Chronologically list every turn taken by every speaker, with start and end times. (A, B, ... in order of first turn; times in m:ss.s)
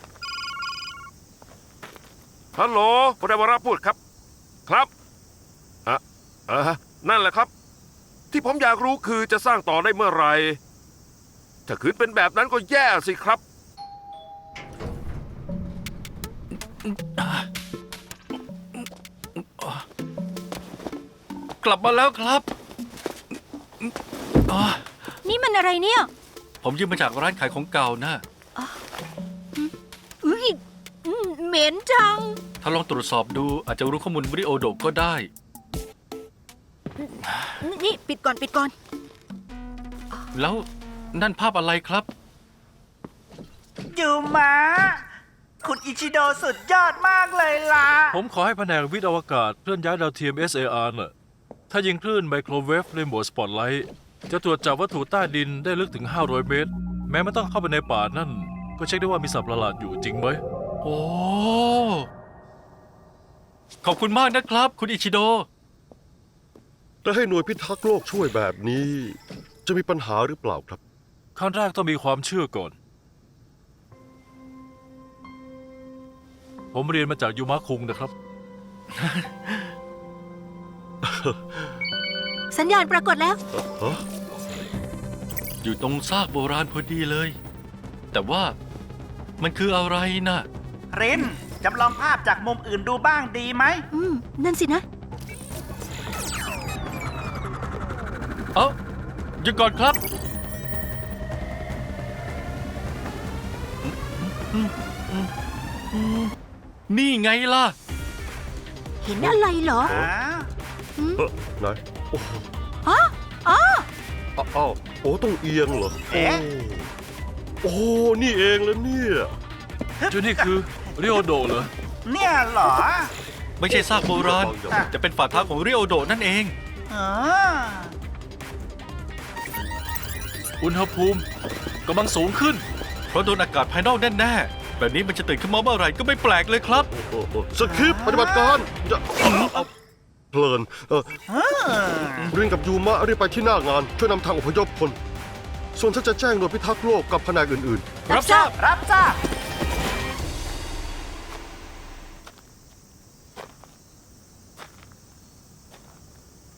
0:02.6-0:04.0 A
0:05.9-0:07.5 A
0:08.3-0:10.6 A
0:11.7-0:13.4 A
0:16.8-0:17.5 B
0:18.7-0:19.8 B
0:21.6-0:22.5 B
0:24.5-0:24.9 B
0:25.2-0:26.1 C
0:26.6-0:28.2 B
0:30.2-0:32.4 C
0:32.6-0:35.3 B
0:37.2-0:37.6 B
0:37.6-0:38.7 C
0:40.3-0:42.1 B
0:43.9-0:45.0 D
0:45.6-0:48.2 D
0:48.1-0:51.1 E
0:51.7-1:00.4 E
1:00.8-1:02.1 B
1:03.8-1:05.5 B
1:07.0-1:10.8 F
1:11.4-1:12.8 E
1:16.7-1:18.1 E
1:18.9-1:19.7 B
1:21.0-1:21.7 F
1:22.5-1:23.4 C
1:23.5-1:24.0 F
1:25.6-1:27.4 B
1:28.1-1:28.6 B
1:29.4-1:30.5 B
1:30.9-1:33.8 D
1:33.9-1:34.8 C
1:39.4-1:40.0 B
1:43.8-1:45.3 B
1:45.9-1:46.3 B
1:46.9-1:47.8 B
1:49.0-1:49.9 C
1:49.2-1:50.1 F
1:49.9-1:50.5 D
1:51.0-1:51.2 C
1:51.2-1:52.5 F
1:52.8-1:53.9 C
1:54.4-1:56.9 F
1:56.1-1:56.4 D
1:57.6-1:59.3 F
2:00.0-2:01.2 D
2:00.1-2:01.7 E
2:02.1-2:03.1 D
2:03.6-2:06.6 B
2:03.7-2:04.9 F
2:06.9-2:07.9 D
2:10.6-2:11.2 E
2:11.9-2:12.6 E
2:13.1-2:16.9 B
2:16.9-2:19.7 F
2:17.6-2:18.6 D
2:19.2-2:19.6 B
2:20.3-2:21.2 F
2:21.3-2:22.3 D
2:22.3-2:25.0 F
2:25.7-2:28.0 F
2:28.1-2:28.5 B
2:28.1-2:29.2 D